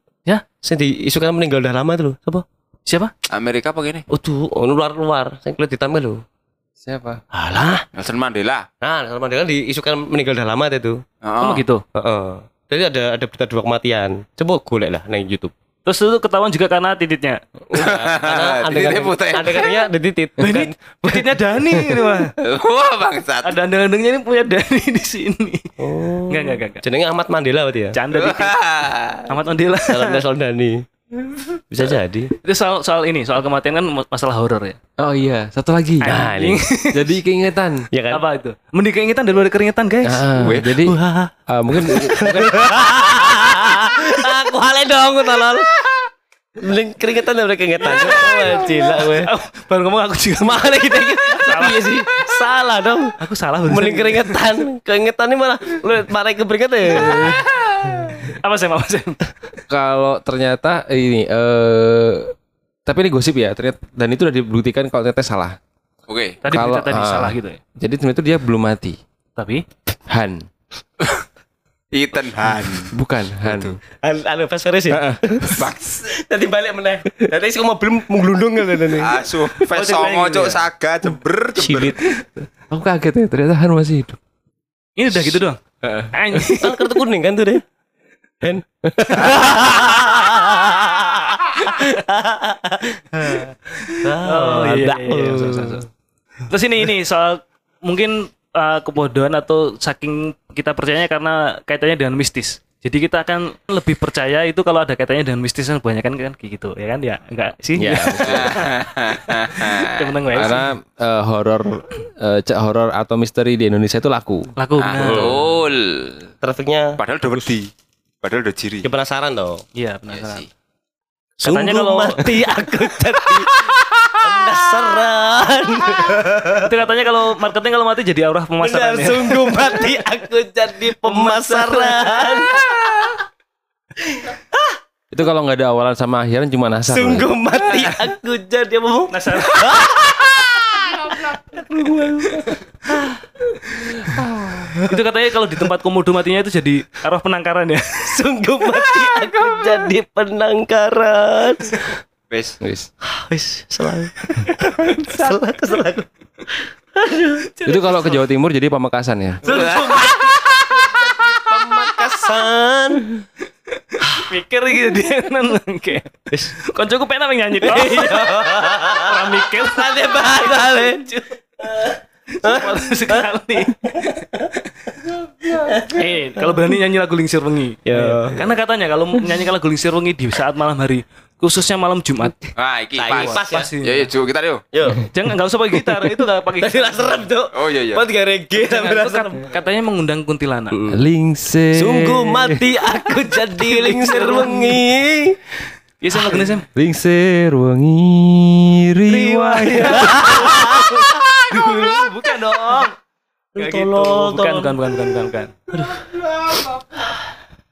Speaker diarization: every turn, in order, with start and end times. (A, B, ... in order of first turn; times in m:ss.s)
0:00.6-0:02.4 A
0:03.3-0:04.0 B
0:04.1-0:06.2 A
0:06.8-0:07.2 C
0:07.3-0:07.8 A
0:08.0-0:08.6 B
0:08.8-0:11.0 A
0:11.2-0:11.6 B
0:11.4-0:11.8 D
0:12.0-0:15.5 A
0:15.8-0:17.4 D
0:17.7-0:22.2 A
0:17.7-0:19.9 B
0:20.4-0:22.3 D
0:22.4-0:23.6 B
0:23.4-0:25.7 D
0:25.8-0:28.0 A
0:26.3-0:26.8 D
0:27.9-0:28.5 D
0:28.1-0:29.3 B
0:29.3-0:30.2 D
0:29.9-0:30.8 A
0:31.7-0:32.3 A
0:32.4-0:34.8 D
0:35.0-0:36.1 C
0:36.0-0:37.1 D
0:36.0-0:36.6 A
0:36.9-0:37.8 C
0:37.9-0:38.2 A
0:38.1-0:40.3 D
0:40.0-0:42.7 C
0:40.4-0:40.7 B
0:40.8-0:49.3 A
0:47.8-0:51.8 D
0:50.4-0:53.1 A
0:53.2-0:54.4 D
0:53.7-0:57.4 A
0:56.9-0:59.2 D
0:59.7-1:02.3 C
1:02.8-1:05.6 C
1:06.1-1:06.4 B
1:06.4-1:07.6 D
1:06.5-1:09.0 C
1:09.4-1:09.6 D
1:10.1-1:10.4 C
1:11.9-1:12.9 B
1:12.9-1:13.8 C
1:13.4-1:13.8 B
1:14.0-1:20.0 A
1:14.9-1:15.7 C
1:15.6-1:16.1 B
1:19.0-1:22.0 B
1:19.8-1:20.6 D
1:21.6-1:22.4 A
1:22.7-1:24.2 C
1:25.0-1:25.6 D
1:25.8-1:26.1 C
1:26.1-1:27.0 D
1:26.6-1:27.6 A
1:28.4-1:35.8 A
1:33.8-1:35.8 D
1:36.5-1:48.8 D
1:47.8-1:48.5 C
1:48.2-1:50.0 B
1:49.5-1:50.6 D
1:50.3-1:54.5 C
1:54.6-1:55.3 D
1:54.8-1:56.3 B
1:55.0-1:55.5 A
1:56.4-1:57.5 A
1:57.0-1:57.7 B
1:58.2-1:58.9 B
1:58.8-1:59.6 A
1:59.7-2:00.4 D
2:00.1-2:00.5 B
2:01.4-2:02.3 D
2:01.4-2:03.6 A
2:04.2-2:06.7 A
2:06.6-2:09.7 D
2:08.6-2:13.1 A
2:11.0-2:12.3 D
2:14.1-2:14.8 A
2:15.1-2:17.3 C
2:16.9-2:25.0 A
2:17.7-2:18.0 D
2:19.1-2:19.8 D
2:24.8-2:28.2 D
2:28.0-2:32.0 A
2:32.3-2:32.6 B
2:32.6-2:32.9 C
2:33.0-2:38.2 A
2:37.6-2:39.6 C
2:39.4-2:43.2 A
2:39.5-2:40.4 B
2:43.9-2:51.4 D
2:47.6-2:51.1 A
2:51.6-2:54.5 A
2:52.3-2:54.3 D
2:55.4-2:56.6 A
2:55.9-3:02.5 D
2:57.8-2:58.5 A
3:02.6-3:04.6 B
3:03.0-3:03.7 A
3:03.1-3:04.1 D
3:04.7-3:05.0 A
3:05.1-3:07.2 D
3:06.6-3:09.5 A
3:07.5-3:08.0 B
3:08.5-3:10.7 D
3:10.7-3:11.0 A
3:10.9-3:13.2 C
3:11.8-3:15.6 A
3:13.6-3:14.8 D
3:16.0-3:16.6 D
3:16.7-3:21.1 C
3:19.1-3:20.7 D
3:19.8-3:22.8 A
3:21.5-3:22.9 D
3:23.6-3:24.8 A
3:23.6-3:25.5 D
3:25.7-3:27.1 A